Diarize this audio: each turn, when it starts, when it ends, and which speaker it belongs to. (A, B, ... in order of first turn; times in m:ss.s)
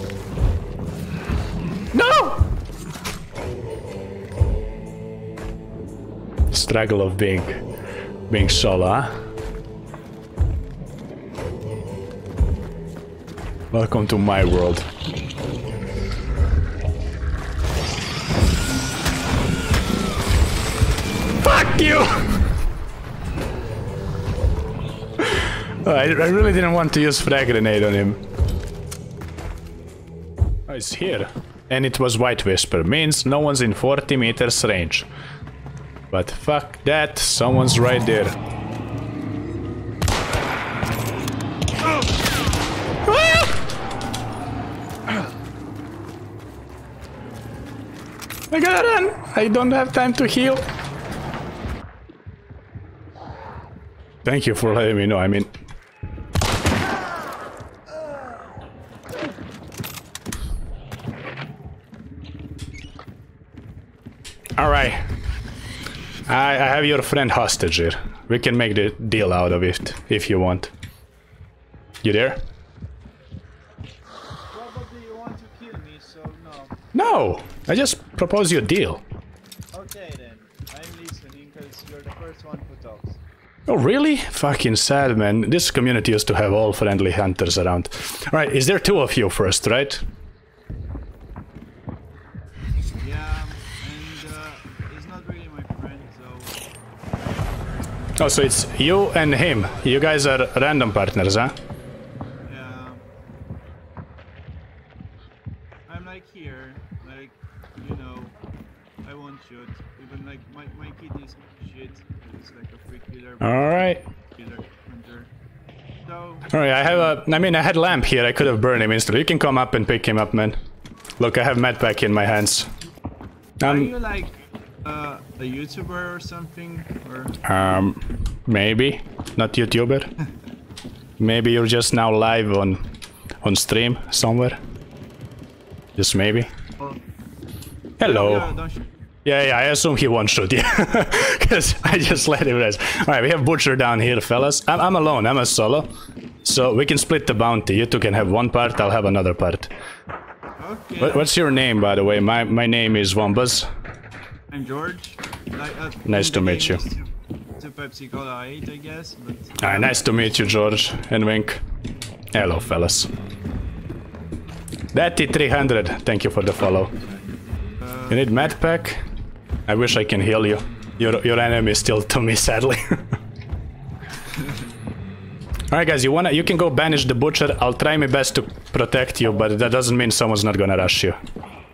0:01.9-0:02.4 A
0:06.5-0:07.6 A
0:08.3-0:09.1 A
0:13.7-0:14.9 A
0:21.4-0:22.4 A
0:25.2-0:28.2 A
0:30.7-0:35.1 A
0:36.1-0:38.3 A
0:43.0-0:43.6 A
0:48.5-0:50.6 A
0:54.2-0:55.5 A
1:04.6-1:05.0 A
1:06.3-1:10.7 A
1:12.0-1:12.4 A
1:14.5-1:16.8 B
1:16.9-1:19.0 A
1:19.7-1:23.2 B
1:23.7-1:30.0 A
1:33.0-1:36.6 B
1:38.2-1:41.5 A
1:42.4-1:43.1 B
1:45.9-1:48.3 B
1:49.0-1:53.8 B
1:53.4-1:54.0 A
1:54.3-1:55.3 B
1:56.0-1:56.6 B
1:56.5-2:00.6 A
2:01.2-2:02.7 A
2:03.6-2:03.9 A
2:03.6-2:07.4 B
2:07.4-2:10.1 A
2:11.2-2:12.8 A
2:13.4-2:14.6 A
2:16.0-2:16.5 A
2:18.0-2:18.5 A
2:18.0-2:18.9 B
2:19.2-2:25.9 A
2:26.4-2:29.7 A
2:30.6-2:31.3 B
2:31.0-2:33.7 A
2:34.5-2:39.9 B
2:36.0-2:36.8 A
2:39.6-2:41.6 A
2:42.3-2:43.1 A
2:44.9-2:46.9 A
2:47.8-2:48.2 B
2:48.1-2:49.0 A
2:49.7-2:53.0 A
2:55.7-3:01.2 A